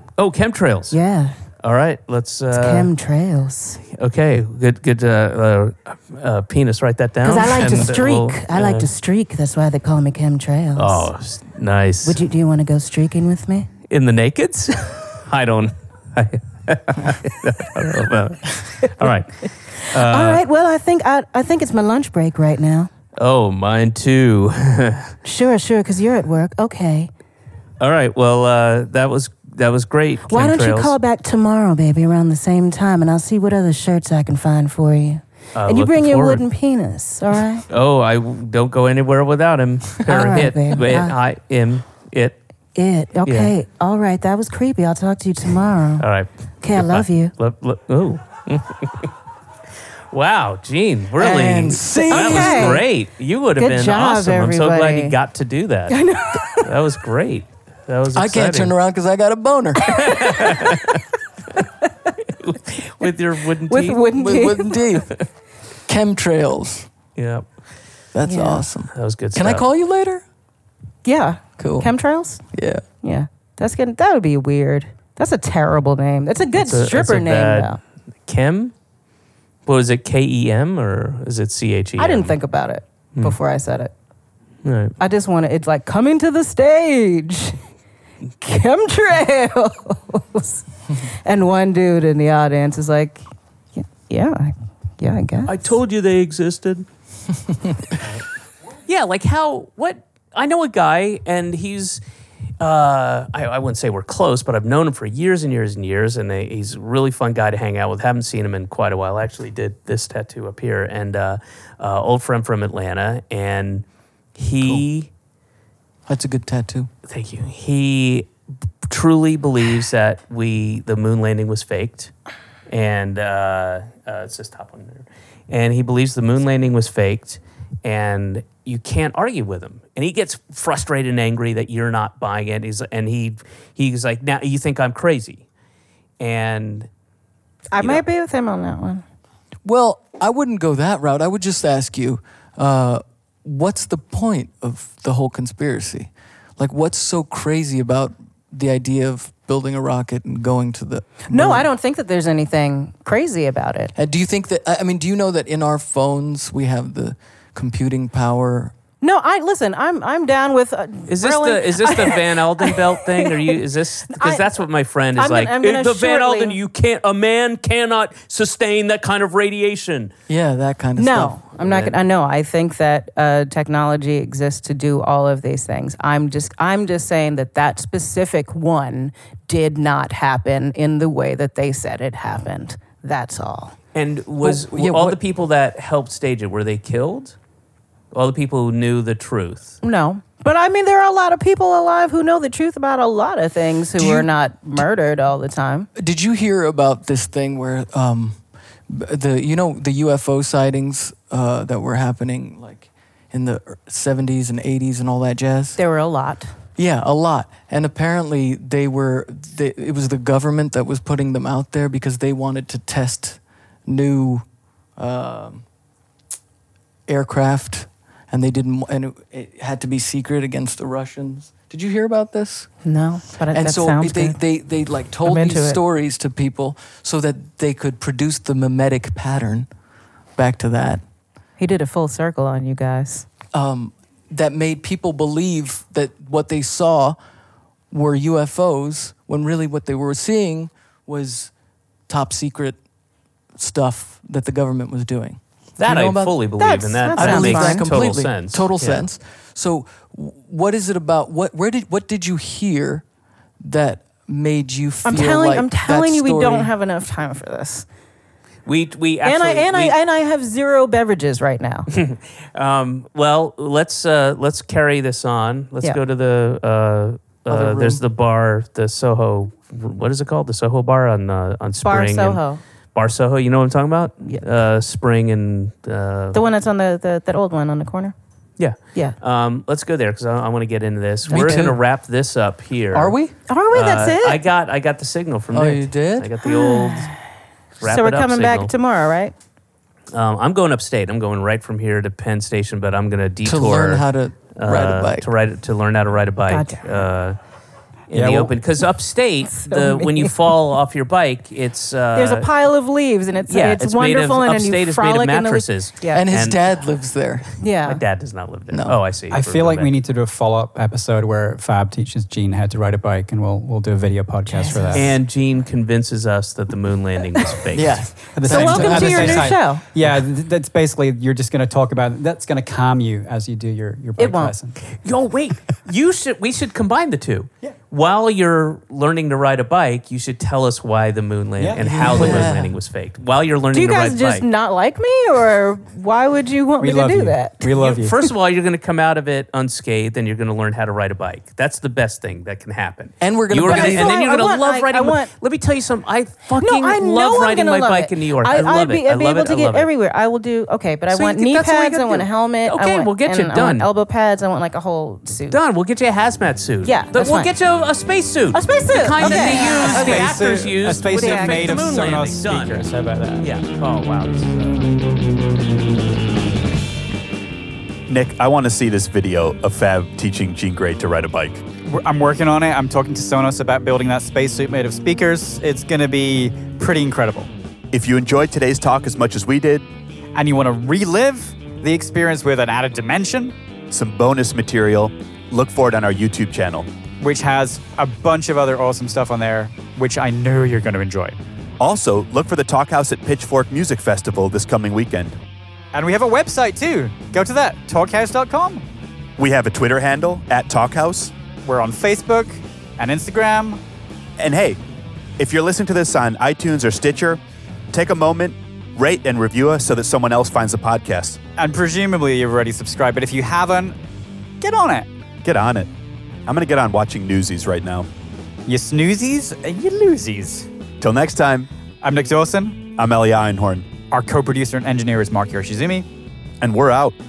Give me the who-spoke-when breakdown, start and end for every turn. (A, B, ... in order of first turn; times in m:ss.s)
0:00.2-0:01.0 A
0:00.9-0:01.3 B
0:01.6-0:02.9 A
0:02.5-0:03.8 B
0:03.8-0:08.9 A
0:07.2-0:11.1 B
0:10.8-0:12.2 A
0:12.0-0:13.7 B
0:13.9-0:20.4 A
0:19.8-0:22.9 B
0:23.2-0:25.1 A
0:25.2-0:27.1 B
0:27.8-0:30.9 A
0:30.3-0:37.6 B
0:35.5-0:36.4 A
0:37.7-0:42.4 A
0:40.0-0:41.2 B
0:42.7-0:46.0 B
0:43.2-0:43.5 A
0:46.0-0:49.1 A
0:46.6-0:47.3 B
0:50.1-0:58.7 A
0:51.2-0:52.8 C
0:51.9-0:52.8 B
0:53.6-0:55.2 B
0:55.9-0:56.7 B
0:58.1-0:59.9 C
0:59.8-1:00.9 B
0:59.9-1:01.0 A
1:01.6-1:02.1 B
1:02.3-1:04.0 A
1:03.7-1:04.8 B
1:04.1-1:05.1 C
1:05.9-1:06.9 C
1:07.2-1:07.4 A
1:08.1-1:10.2 C
1:08.2-1:08.6 B
1:08.9-1:09.6 A
1:11.0-1:12.4 B
1:11.6-1:11.9 C
1:12.5-1:12.8 C
1:13.0-1:17.8 B
1:16.6-1:17.7 A
1:18.2-1:18.7 A
1:19.6-1:22.3 A
1:22.0-1:23.9 B
1:24.6-1:25.0 A
1:25.0-1:27.6 B
1:28.4-1:35.7 B
1:35.5-1:36.8 A
1:38.9-1:42.0 A
1:42.6-1:53.8 A
1:54.4-1:55.1 A
1:56.1-1:56.9 C
1:57.1-1:58.3 A
1:58.8-2:02.1 A
2:02.7-2:15.4 A
2:16.2-2:16.9 A
2:17.7-2:19.0 B
2:17.8-2:18.0 A
2:19.6-2:31.7 C
2:31.3-2:33.9 B
2:33.9-2:38.7 C
2:39.0-2:43.6 B
2:41.1-2:50.1 A
2:44.1-2:44.5 B
2:45.2-2:46.6 B
2:50.3-2:51.4 C
2:51.0-3:03.7 B
2:51.6-2:51.9 A
3:03.9-3:07.4 A
3:04.4-3:05.2 C
3:08.1-3:09.8 A
3:09.8-3:15.9 B
3:14.0-3:14.3 C
3:16.0-3:25.8 C
3:25.8-3:26.5 B
3:26.8-3:34.4 C
3:35.0-3:35.6 C
3:37.1-3:42.7 C
3:42.8-3:44.4 B
3:43.5-3:49.7 C
3:45.2-3:45.8 B
3:50.4-3:51.0 C
3:51.6-3:53.3 B
3:53.5-3:57.2 C
3:57.9-4:01.5 C
4:02.1-4:02.8 C
4:03.5-4:06.4 C
4:05.8-4:09.0 A
4:06.6-4:07.8 B
4:07.1-4:13.0 C
4:13.6-4:16.7 C
4:15.0-4:17.8 B
4:18.6-4:20.0 A
4:19.2-4:21.9 B
4:21.9-4:32.4 A
4:27.5-4:28.0 C
4:31.8-4:32.6 B
4:32.9-4:36.4 A
4:36.3-4:38.1 B
4:38.6-4:43.2 A
4:41.3-4:41.8 C
4:42.9-4:43.3 C
4:43.5-4:44.4 B
4:43.7-4:47.1 A
4:45.5-4:46.3 C
4:46.4-4:47.2 B
4:47.8-4:48.7 A
4:47.8-4:49.3 B
4:50.1-4:57.4 A
4:53.4-4:55.3 C
4:56.5-4:57.0 B
4:58.1-5:02.5 A
4:58.1-4:58.5 D
4:59.4-5:00.3 B
5:02.2-5:06.2 B
5:03.5-5:06.6 A
5:06.1-5:07.4 C
5:07.6-5:08.0 B
5:07.8-5:09.9 A
5:08.7-5:09.0 C
5:09.3-5:15.1 D
5:14.4-5:15.2 B
5:14.9-5:18.0 A
5:17.7-5:19.5 C
5:18.3-5:24.8 D
5:18.4-5:19.8 B
5:24.2-5:24.5 B
5:24.9-5:34.4 A
5:31.6-5:32.4 D
5:31.8-5:32.8 C
5:32.2-5:32.4 B
5:33.7-5:37.7 B
5:36.8-5:38.2 D
5:37.8-5:49.9 A
5:43.2-5:44.3 C
5:43.6-5:45.3 B
5:46.6-5:55.6 B
5:51.1-5:53.9 A
5:55.5-6:02.9 A
5:56.8-5:57.5 B
5:58.5-6:00.3 B
5:59.2-6:03.5 D
6:01.1-6:01.7 B
6:03.4-6:05.0 A
6:08.1-6:11.6 E
6:11.8-6:17.5 D
6:17.9-6:19.9 E
6:20.3-6:23.5 D
6:23.9-6:26.9 E
6:27.2-6:31.4 D
6:31.8-6:35.3 E
6:35.9-6:38.8 D
6:39.4-6:41.3 E
6:41.6-6:43.8 D
6:44.4-6:44.8 E
6:45.4-6:47.4 E
6:47.9-6:51.4 E
6:51.6-6:54.0 D
6:54.6-6:55.1 D
6:55.4-6:55.9 E
6:56.4-6:58.1 E
6:58.7-7:00.7 D
7:01.0-7:01.7 E
7:02.0-7:02.8 D
7:03.0-7:03.9 E
7:04.1-7:06.1 D
7:06.6-7:07.2 E